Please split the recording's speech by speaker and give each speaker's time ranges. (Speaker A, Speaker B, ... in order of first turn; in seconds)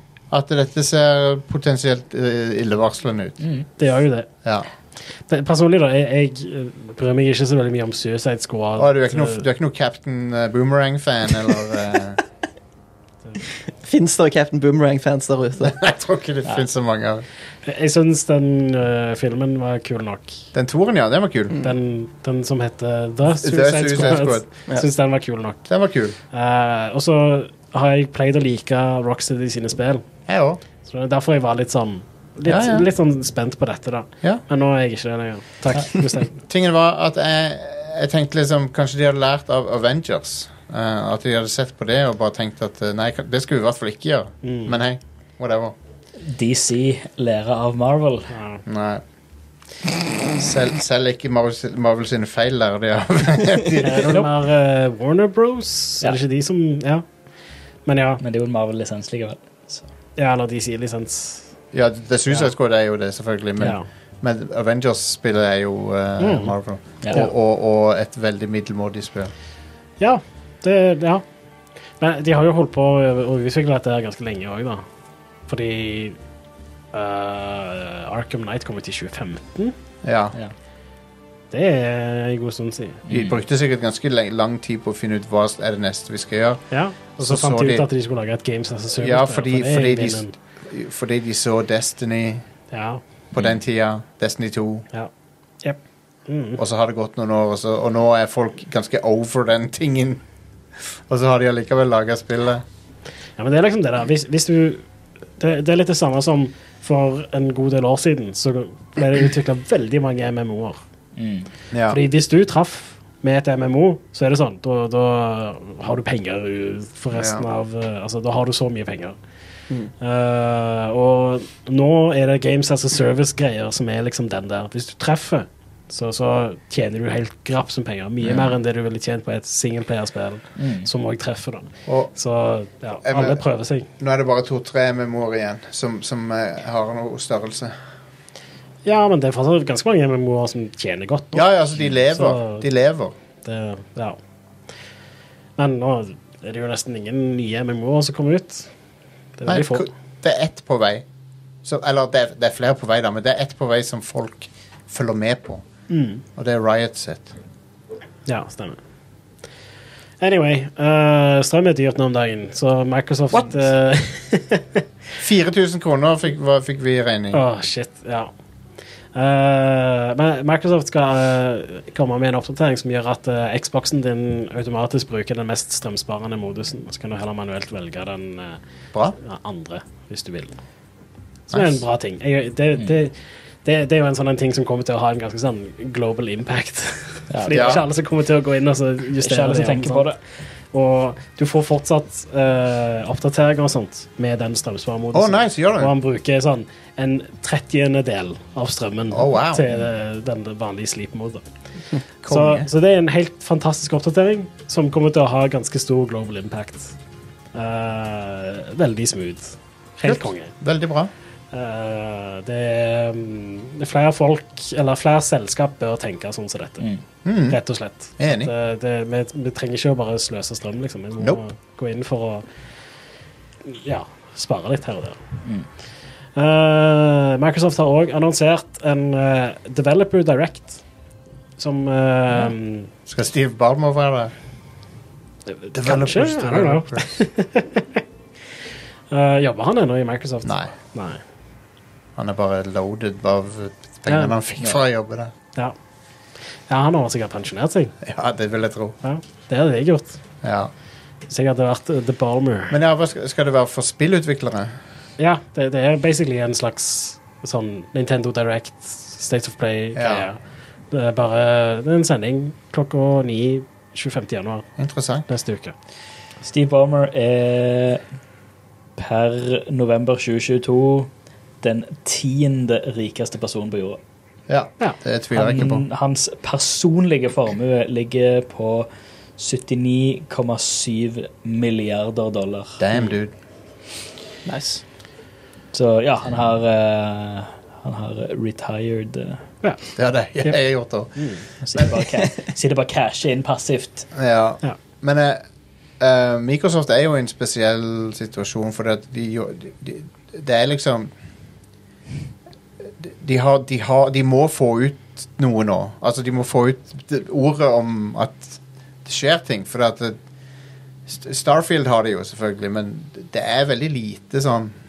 Speaker A: 0.3-3.4, 8.8-12.2, 15.6-17.2, 20.5-21.6, 23.3-24.4, 25.7-26.1, 30.3-30.6, 32.5-32.9, 36.5-45.7, 48.6-49.0, 50.3-54.1, 61.7-69.3, 80.0-80.3, 83.1-86.6, 87.2-87.9, 89.0-92.4, 93.3-94.8, 96.6-100.2, 100.9-102.6, 111.7-112.0, 117.1-117.5, 131.8-132.1, 133.0-133.4, 134.0-137.7, 141.3-143.1, 149.4-151.0, 151.6-155.6, 156.3-157.3, 165.2-167.4, 181.5-181.8, 187.5-187.8, 195.1-195.9, 199.1-199.8, 202.2-202.7, 210.0-211.1, 217.2-217.6, 218.2-218.5, 233.1-234.3, 235.7-237.1, 240.4-240.7, 242.2-245.3, 248.0-249.0, 250.4-250.7, 252.7-254.8, 259.9-260.3, 264.8-265.3, 274.5-275.9, 282.8-283.3, 289.9-291.9, 294.1-295.4, 296.0-301.1, 303.0-310.2, 311.1-314.7
Speaker B: 3.4-3.7, 46.2-48.3, 58.2-59.9, 83.1-83.4, 111.2-111.5, 130.6-130.9, 187.3-187.8, 189.2-190.2, 266.4-268.0, 269.0-271.1, 271.6-274.0, 275.3-282.8, 285.7-289.4, 291.6-294.1
Speaker C: 3.8-4.3, 5.3-9.4, 17.6-20.4, 21.6-25.6, 26.3-30.0, 30.8-36.3, 44.4-44.7, 48.3-48.6, 53.8-57.0, 57.9-58.2, 60.2-61.5, 66.2-66.5, 70.0-71.2, 72.0-74.8, 75.5-76.2, 76.9-79.7, 81.5-83.0, 86.7-90.3, 92.7-93.0, 95.6-96.6, 103.4-104.8, 105.4-110.8, 111.9-119.2, 120.0-133.9, 138.8-141.5, 142.1-142.7, 143.4-144.2, 145.6-148.7, 149.4-149.9, 155.9-156.2, 158.3-158.8, 160.2-164.8, 167.3-168.3, 169.1-178.6, 179.2-180.6, 181.5-183.1, 183.6-190.1, 190.7-201.4, 202.3-206.9, 207.5-210.5, 211.5-216.8, 217.5-222.4, 223.6-225.2, 226.3-230.8, 231.6-232.9, 235.5-238.0, 239.1-241.2, 244.1-244.3, 246.7-247.9, 249.0-250.2, 251.3-252.8, 255.2-260.4, 260.9-264.6, 265.3-265.7, 291.2-291.4
Speaker D: 13.8-15.8, 284.4-284.8